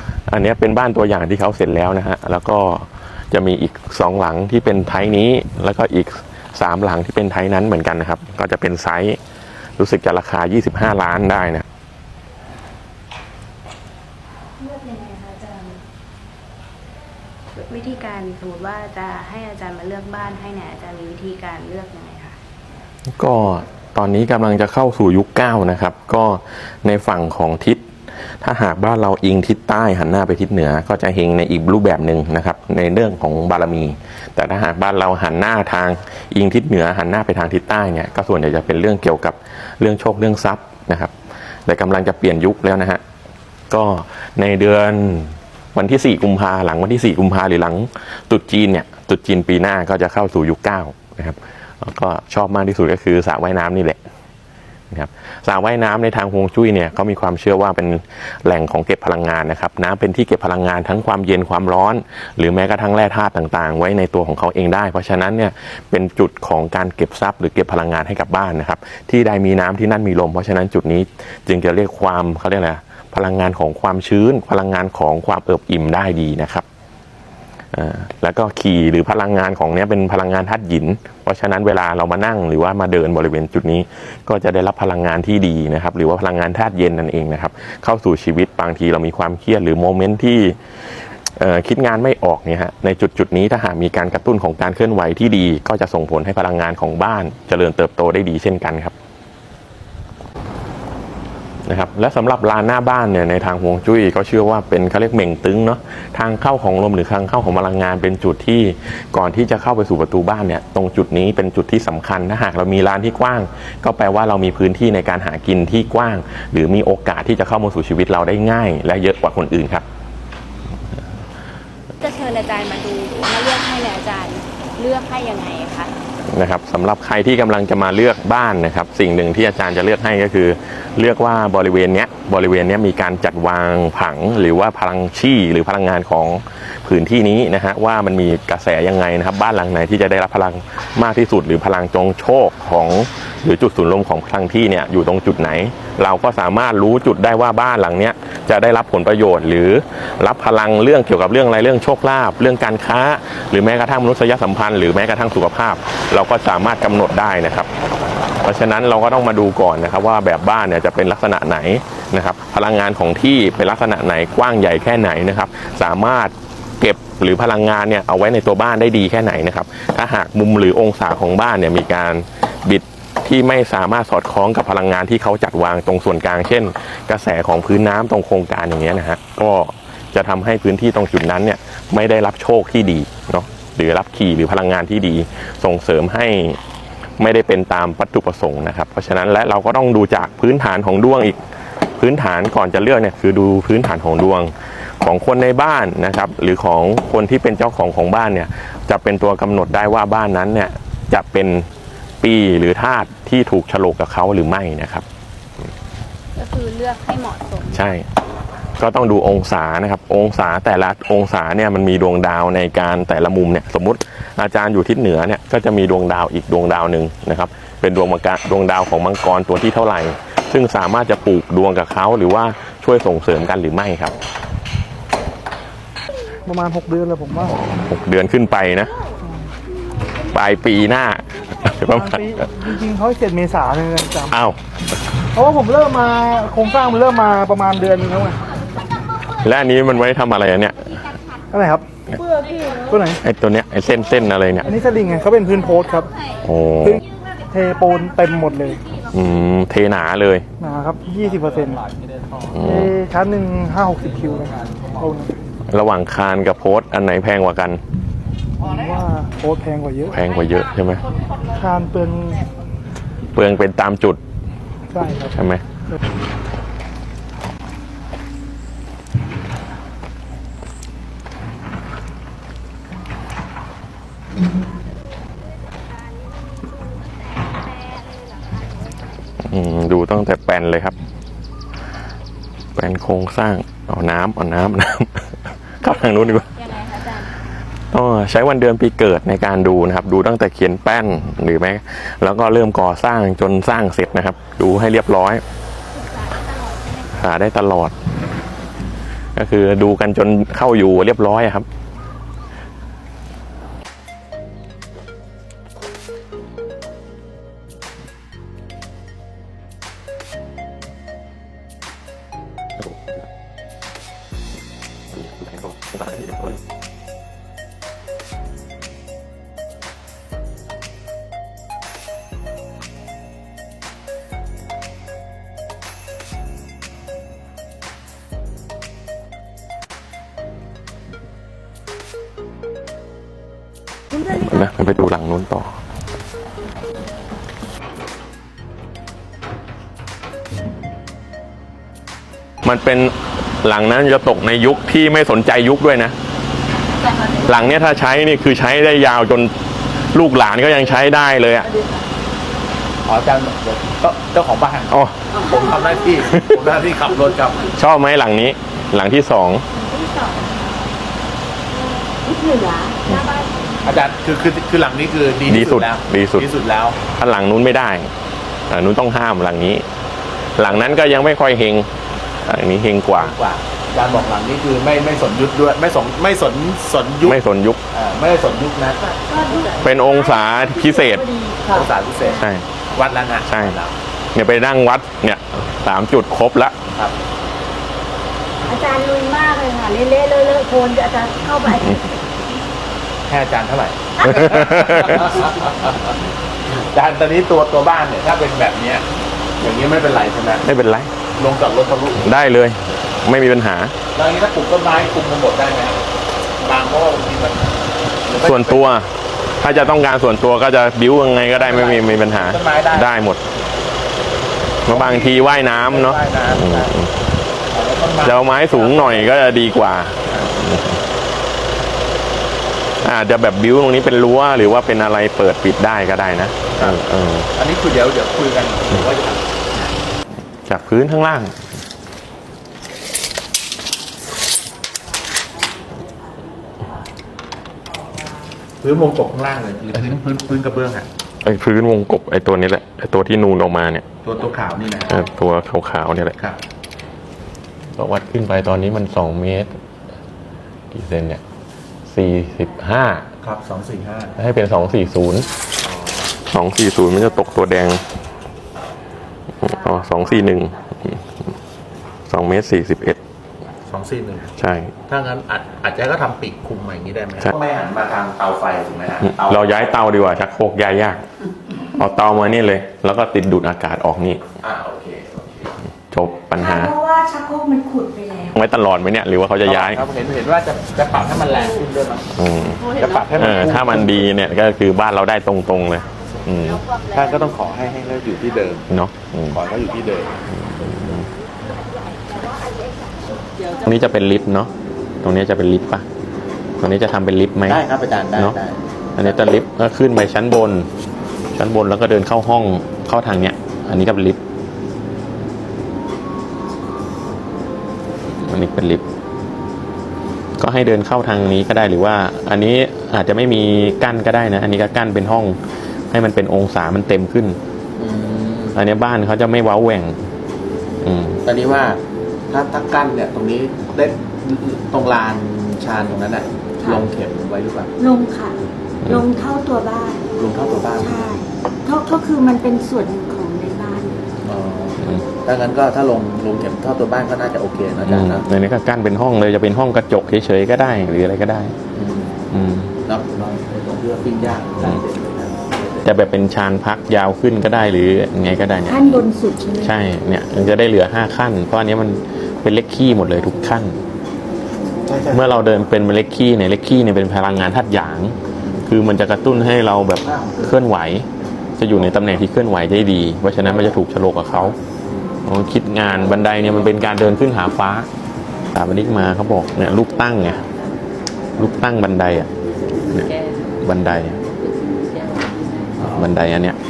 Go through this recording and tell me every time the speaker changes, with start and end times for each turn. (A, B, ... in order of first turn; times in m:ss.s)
0:00.3-0:09.2 A
0:09.8-0:11.6 A
0:14.6-0:15.8 B
0:17.6-0:22.4 B
0:23.2-0:41.1 A
0:41.6-0:43.0 A
0:43.7-0:54.0 A
0:54.9-1:16.6 A
1:17.7-1:30.6 A
1:31.4-1:38.9 A
1:41.6-1:59.8 A
2:02.0-2:05.9 B
2:06.3-2:37.7 A
2:38.4-3:06.6 A
3:07.2-3:11.4 A
3:11.9-3:21.7 A
3:22.2-3:25.0 A
3:26.4-3:27.9 B
3:27.7-3:28.1 A
3:28.8-3:44.1 A
3:46.4-3:47.6 C
3:47.4-3:48.9 A
3:50.2-3:52.2 A
3:51.9-3:54.3 C
3:54.3-3:54.6 A
3:55.3-3:58.4 C
3:59.4-4:01.1 A
4:01.5-4:01.8 C
4:02.7-4:03.2 C
4:03.2-4:04.7 A
4:04.7-4:06.1 C
4:06.4-4:07.0 A
4:07.5-4:08.8 C
4:09.1-4:10.4 A
4:10.6-4:11.9 C
4:12.4-4:12.9 A
4:12.6-4:15.3 C
4:15.7-4:17.8 A
4:18.6-4:20.2 C
4:20.1-4:21.0 A
4:21.5-4:22.4 C
4:23.3-4:24.2 A
4:24.9-4:25.4 C
4:25.3-4:25.6 A
4:37.8-4:38.4 B
4:39.4-4:40.9 A
4:42.8-4:46.5 A
4:46.4-4:47.3 B
4:47.9-4:55.4 A
4:55.9-4:57.0 B
4:57.1-4:57.9 A
4:59.4-5:01.6 A
5:15.4-5:16.5 A
5:34.1-5:34.4 D
5:34.2-5:35.7 A
5:42.6-5:46.1 A
5:47.4-5:49.5 A
5:50.1-5:51.7 A
5:53.0-5:57.7 E
5:54.9-5:55.2 A
5:56.2-5:56.6 A
5:57.7-5:59.6 A
5:59.8-6:00.5 D
6:01.7-6:03.5 D
6:03.8-6:07.0 E
6:05.4-6:06.5 A
6:07.0-6:08.1 A
6:08.7-6:09.8 A
6:10.6-6:11.9 A
6:12.4-6:13.3 A
6:13.1-6:17.4 E
6:17.2-6:17.8 A
6:17.9-6:19.1 E
6:19.1-6:21.9 D
6:19.8-6:21.2 A
6:21.6-6:23.9 E
6:22.2-6:22.7 A
6:23.4-6:23.8 A
6:24.3-6:26.8 A
6:28.7-6:32.2 D
6:33.3-6:36.2 E
6:34.2-6:35.3 A
6:36.7-6:39.0 E
6:39.6-6:40.6 E
6:40.6-6:41.1 A
6:41.3-6:42.3 E
6:42.2-6:43.9 A
6:44.1-6:46.0 E
6:46.6-6:47.7 E
6:48.2-6:48.9 E
6:48.4-6:53.4 A
6:49.6-6:49.9 E
6:51.5-6:53.1 E
6:54.8-6:57.1 A
6:54.9-6:56.9 E
6:57.7-6:59.4 E
6:58.2-7:01.0 A
7:03.0-7:07.5 A
7:07.5-7:09.9 E
7:10.6-7:11.6 A
7:14.4-7:17.1 D
7:17.8-7:18.5 D
7:18.8-7:21.1 E
7:21.4-7:24.0 A
7:24.2-7:25.2 E
7:25.1-7:26.4 A
7:28.0-7:29.7 A
7:30.9-7:31.4 A
7:32.0-7:33.2 A
7:33.4-7:34.3 E
7:34.4-7:35.5 A
7:35.8-7:36.3 E
7:36.4-7:38.0 A
7:39.6-7:41.4 A
7:42.3-7:43.2 A
7:43.9-7:44.5 E
7:44.6-7:45.0 A
7:45.1-7:49.7 E
7:49.2-7:51.2 A
7:51.8-7:54.5 A
7:54.6-7:55.5 E
7:56.1-7:57.0 A
7:56.6-7:58.6 D
7:58.5-8:00.0 A
7:59.6-8:02.3 E
8:02.4-8:06.8 A
8:02.9-8:04.2 E
8:07.1-8:08.9 E
8:08.9-8:09.6 A
8:09.5-8:10.4 E
8:10.5-8:11.3 A
8:13.8-8:14.7 A
8:15.2-8:16.0 A
8:16.8-8:17.8 A
8:17.6-8:19.5 E
8:19.2-8:20.9 A
8:21.5-8:24.4 A
8:28.4-8:29.0 A
8:30.6-8:35.6 A
8:36.1-8:37.6 A
8:38.0-8:38.8 E
8:38.7-8:40.2 A
8:41.0-8:41.4 A
8:41.4-8:47.9 E
8:48.0-8:50.2 D
8:50.4-8:51.3 E
8:51.0-8:54.2 D
8:54.4-8:58.4 E
8:58.0-9:01.7 A
9:01.9-9:02.4 E
9:02.5-9:02.9 A
9:03.0-9:06.0 E
9:06.0-9:09.2 A
9:08.9-9:10.0 D
9:09.8-9:14.0 A
9:15.1-9:15.5 E
9:15.3-9:24.8 A
9:20.2-9:20.6 E
9:25.4-9:28.1 A
9:28.7-9:30.6 A
9:31.6-9:32.5 A
9:33.1-9:34.4 A
9:36.0-9:36.8 A